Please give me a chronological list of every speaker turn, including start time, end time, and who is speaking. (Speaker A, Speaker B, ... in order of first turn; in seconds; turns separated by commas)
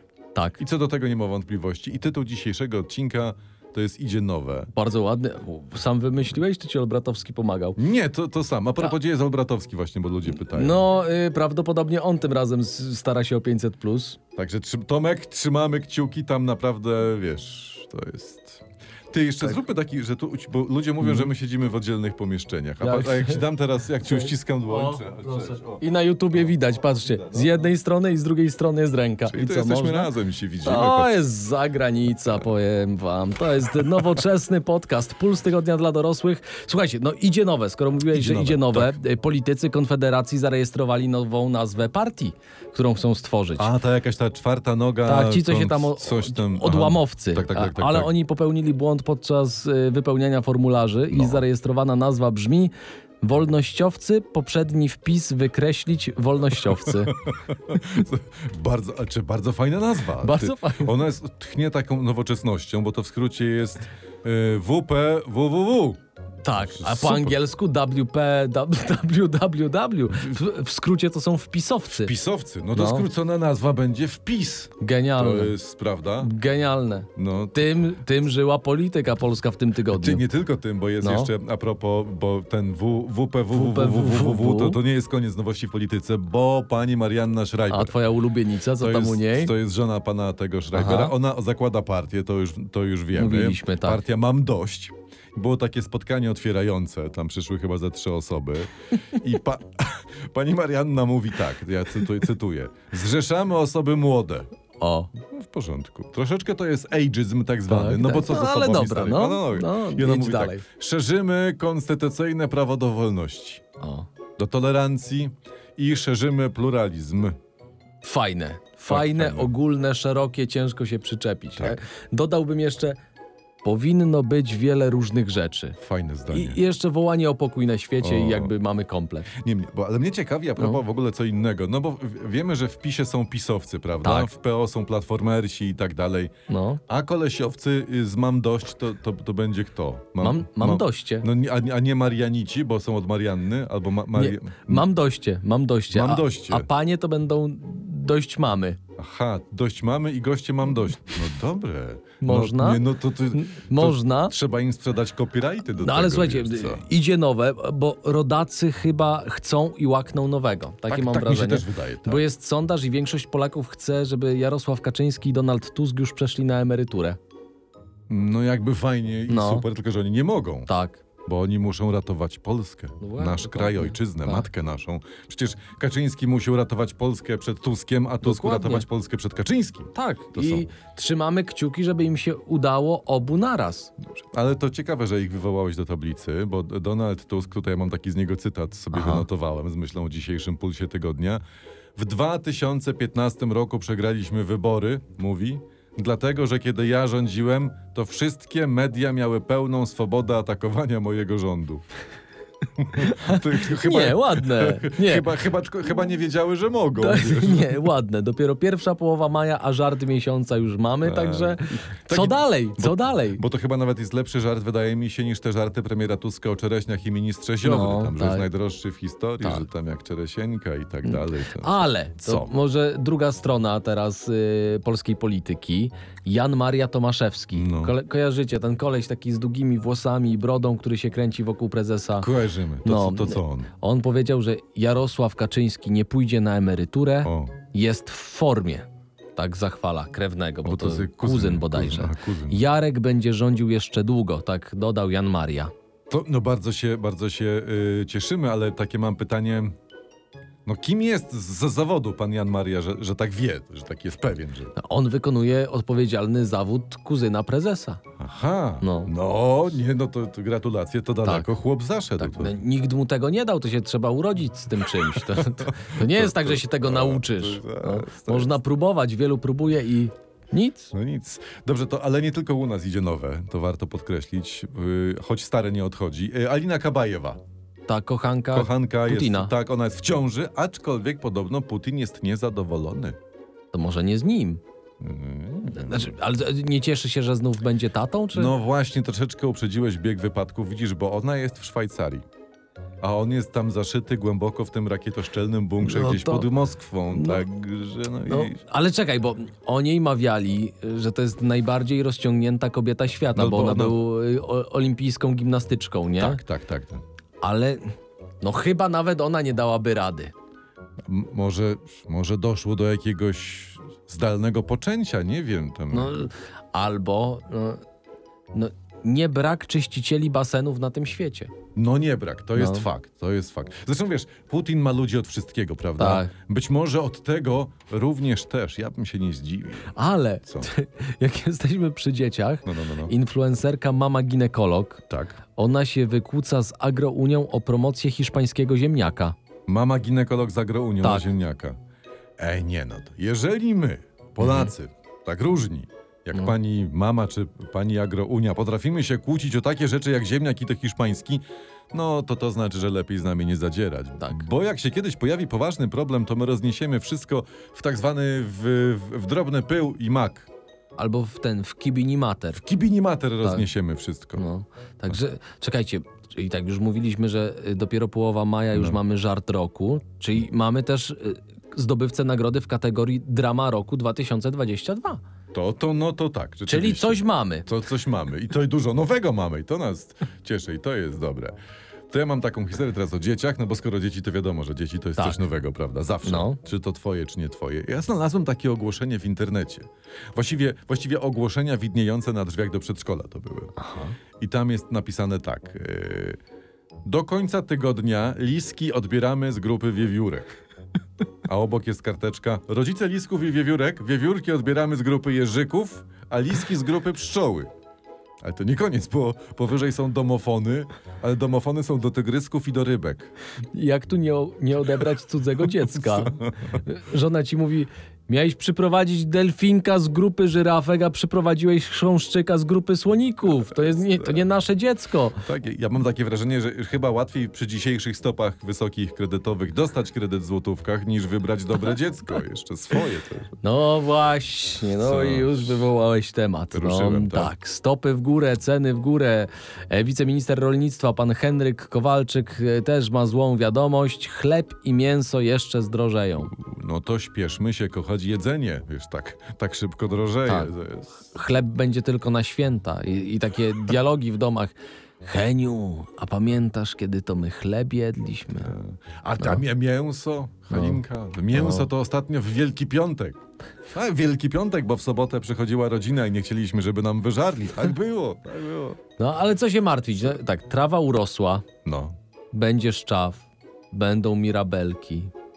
Speaker A: 0.3-0.6, Speaker B: 0.6-4.7, Speaker A: 4.8-7.8, Speaker B: 7.8-10.8, Speaker A: 10.3-14.2, Speaker B: 14.3-25.8, Speaker A: 21.0-21.3, Speaker A: 22.8-23.4, Speaker A: 24.0-30.1, Speaker B: 29.3-31.1, Speaker A: 30.6-43.7, Speaker B: 38.1-39.0, Speaker B: 43.6-48.1, Speaker A: 45.0-57.2, Speaker B: 51.1-51.4, Speaker B: 56.6-66.0, Speaker A: 60.2-61.0, Speaker A: 66.4-72.1, Speaker B: 66.6-67.4, Speaker B: 71.9-76.3, Speaker A: 72.7-73.0, Speaker A: 74.8-75.5, Speaker A: 76.2-80.2, Speaker B: 77.2-77.8, Speaker B: 79.9-87.9, Speaker A: 81.0-81.3, Speaker A: 83.5-84.8, Speaker A: 87.7-89.5, Speaker B: 88.8-104.5, Speaker A: 90.7-91.1, Speaker A: 93.1-94.0, Speaker A: 104.8-105.1, Speaker B: 105.2-113.6, Speaker A: 107.7-110.6, Speaker A: 113.8-114.1, Speaker B: 114.4-117.4, Speaker A: 118.0-123.0, Speaker B: 118.9-119.5, Speaker A: 123.6-125.8, Speaker B: 125.8-126.6, Speaker A: 126.3-129.3, Speaker B: 128.0-128.5, Speaker B: 129.3-136.3, Speaker A: 134.0-134.3, Speaker A: 136.5-136.8, Speaker B: 136.9-144.9, Speaker A: 140.2-141.3, Speaker A: 144.1-148.8, Speaker B: 145.9-146.7, Speaker B: 149.0-156.8, Speaker A: 152.2-154.3, Speaker A: 155.8-167.2, Speaker B: 160.9-162.2, Speaker B: 168.1-170.7, Speaker A: 169.3-169.7, Speaker A: 170.7-171.0, Speaker B: 171.2-180.7, Speaker A: 173.0-174.4, Speaker A: 178.2-178.8, Speaker A: 179.9-183.9, Speaker B: 184.2-191.4, Speaker A: 188.9-189.2, Speaker B: 191.9-201.8, Speaker B: 202.8-207.9, Speaker A: 202.9-205.3, Speaker A: 207.0-213.4, Speaker B: 211.0-222.5, Speaker A: 217.6-218.4, Speaker A: 221.1-232.3, Speaker B: 227.5-227.9, Speaker B: 232.2-233.7, Speaker A: 232.8-245.7, Speaker B: 237.2-237.5, Speaker B: 240.6-242.6, Speaker B: 246.1-249.8, Speaker B: 250.6-254.7, Speaker A: 254.8-258.0, Speaker B: 258.2-262.6, Speaker A: 258.8-259.1, Speaker A: 261.2-261.5, Speaker A: 262.2-270.9, Speaker B: 264.9-268.6, Speaker B: 270.9-277.4, Speaker A: 277.9-279.5, Speaker B: 278.5-283.2, Speaker A: 283.7-284.6, Speaker B: 285.0-286.1, Speaker A: 285.7-288.5, Speaker B: 288.3-292.2, Speaker B: 293.0-298.6, Speaker A: 295.8-296.5, Speaker A: 297.1-297.4, Speaker A: 298.3-306.4, Speaker B: 303.3-304.0, Speaker B: 306.2-307.0, Speaker A: 307.4-310.3, Speaker B: 311.0-316.3, Speaker A: 315.9-317.8, Speaker A: 318.5-321.5, Speaker B: 321.8-329.9, Speaker A: 322.6-322.9, Speaker A: 326.0-326.3, Speaker A: 329.9-335.0, Speaker B: 332.6-333.1, Speaker B: 335.1-335.4, Speaker A: 335.6-339.3, Speaker B: 339.7-341.8, Speaker B: 342.4-360.5, Speaker A: 344.4-344.7, Speaker A: 354.2-354.5, Speaker A: 360.9-362.6, Speaker B: 362.5-364.4, Speaker A: 364.4-375.2, Speaker B: 368.7-369.0, Speaker B: 375.5-381.6, Speaker A: 376.7-377.7, Speaker B: 382.1-393.7, Speaker A: 386.2-386.6, Speaker A: 393.8-394.1, Speaker B: 394.4-396.4, Speaker B: 397.0-400.6, Speaker B: 401.4-407.7, Speaker B: 408.4-413.3, Speaker A: 413.7-425.4, Speaker B: 416.0-416.7, Speaker B: 424.0-424.4, Speaker B: 425.4-433.5, Speaker A: 433.6-446.5, Speaker B: 434.9-435.8, Speaker B: 436.7-437.5, Speaker B: 446.5-451.3, Speaker A: 451.3-458.7, Speaker B: 458.5-469.0, Speaker A: 460.7-461.0, Speaker A: 461.5-461.9, Speaker A: 469.2-471.6, Speaker B: 471.8-472.1, Speaker A: 472.5-475.3